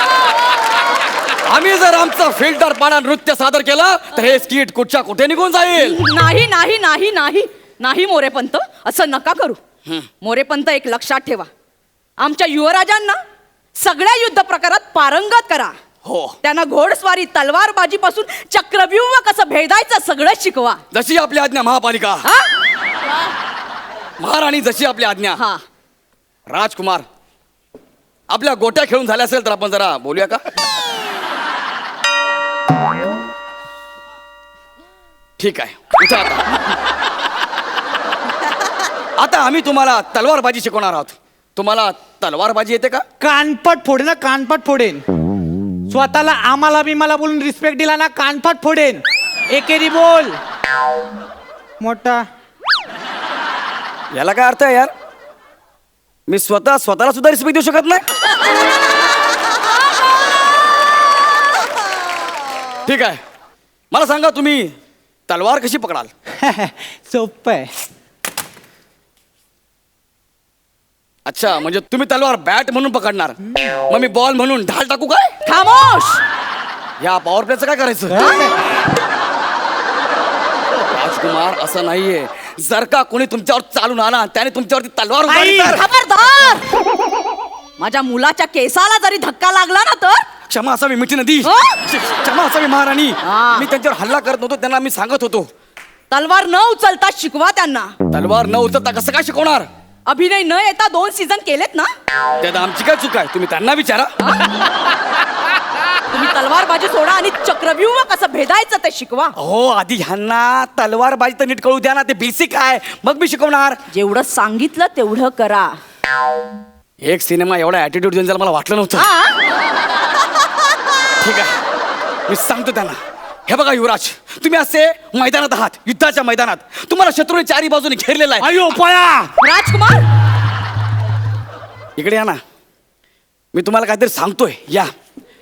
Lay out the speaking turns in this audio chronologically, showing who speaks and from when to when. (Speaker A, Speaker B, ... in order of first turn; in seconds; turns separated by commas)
Speaker A: 1.4-6.0, Speaker B: 5.8-9.6, Speaker B: 10.2-11.5, Speaker B: 12.2-13.2, Speaker B: 13.8-15.8, Speaker A: 16.1-16.4, Speaker B: 16.4-20.8, Speaker A: 20.9-22.2, Speaker A: 24.2-25.4, Speaker B: 25.4-25.6, Speaker A: 26.5-27.1, Speaker A: 28.3-30.4, Speaker A: 35.4-36.7, Speaker A: 39.2-43.0, Speaker C: 43.2-45.0, Speaker C: 45.9-50.4, Speaker C: 51.8-52.2, Speaker A: 54.1-54.9, Speaker A: 56.3-58.0, Speaker A: 62.9-63.2, Speaker A: 63.9-64.7, Speaker A: 65.3-66.1, Speaker C: 66.4-67.7, Speaker A: 71.3-73.4, Speaker A: 73.9-75.3, Speaker B: 75.5-76.2, Speaker A: 77.0-78.2, Speaker C: 78.1-78.6, Speaker A: 80.9-85.8, Speaker C: 85.3-85.8, Speaker B: 85.7-86.6, Speaker B: 87.8-90.2, Speaker A: 90.5-95.5, Speaker B: 91.4-91.8, Speaker B: 93.2-93.7, Speaker B: 96.1-97.9, Speaker A: 98.1-99.7, Speaker B: 100.1-101.9, Speaker A: 102.4-104.1, Speaker B: 104.2-104.5, Speaker B: 106.1-109.3, Speaker A: 109.4-113.8, Speaker B: 113.9-115.7, Speaker A: 117.0-119.0, Speaker B: 119.0-119.3, Speaker A: 121.2-121.6, Speaker A: 122.3-128.6, Speaker C: 128.4-129.3, Speaker B: 129.4-130.1, Speaker A: 132.0-132.4, Speaker A: 133.5-134.9